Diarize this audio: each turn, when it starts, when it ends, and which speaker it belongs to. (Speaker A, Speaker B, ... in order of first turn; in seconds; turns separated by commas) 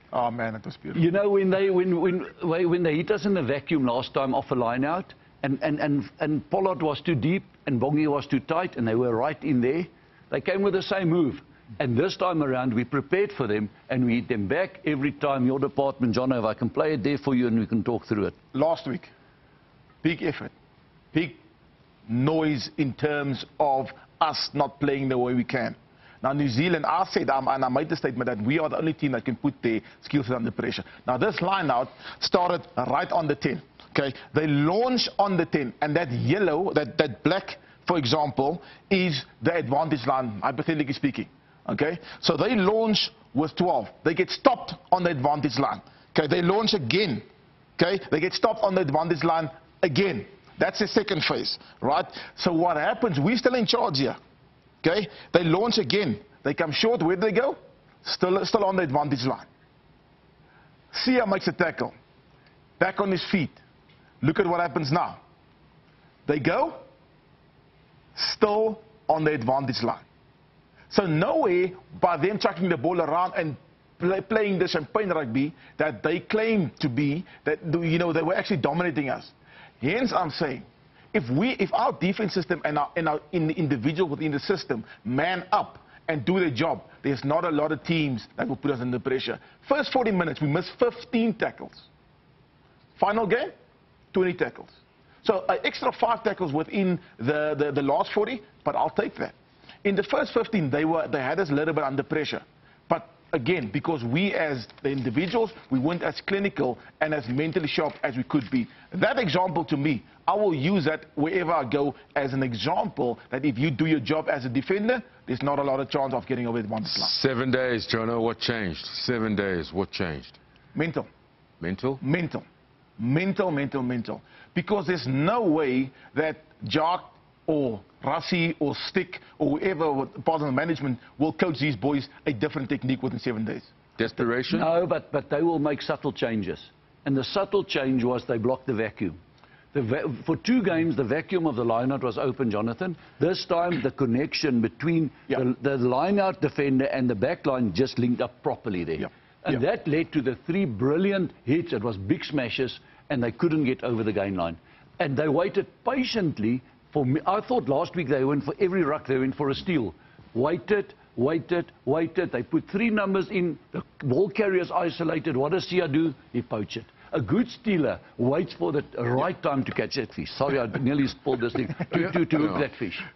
Speaker A: 0.1-1.1, Speaker B: 0.9-18.4, Speaker A: 18.5-19.1, Speaker A: 20.0-20.5, Speaker A: 21.1-21.4, Speaker A: 22.1-47.2, Speaker A: 47.8-54.2, Speaker A: 54.8-59.5, Speaker A: 60.9-61.9, Speaker A: 62.8-63.6, Speaker A: 64.2-65.2, Speaker A: 66.3-66.8, Speaker A: 68.2-70.0, Speaker A: 70.9-91.9, Speaker A: 93.0-93.5, Speaker A: 94.1-117.1, Speaker C: 116.9-120.4, Speaker A: 120.7-121.1, Speaker C: 121.6-122.0, Speaker A: 122.0-122.4, Speaker A: 123.0-133.7, Speaker C: 134.0-134.7, Speaker B: 134.5-139.2, Speaker B: 139.7-173.1, Speaker C: 172.3-172.7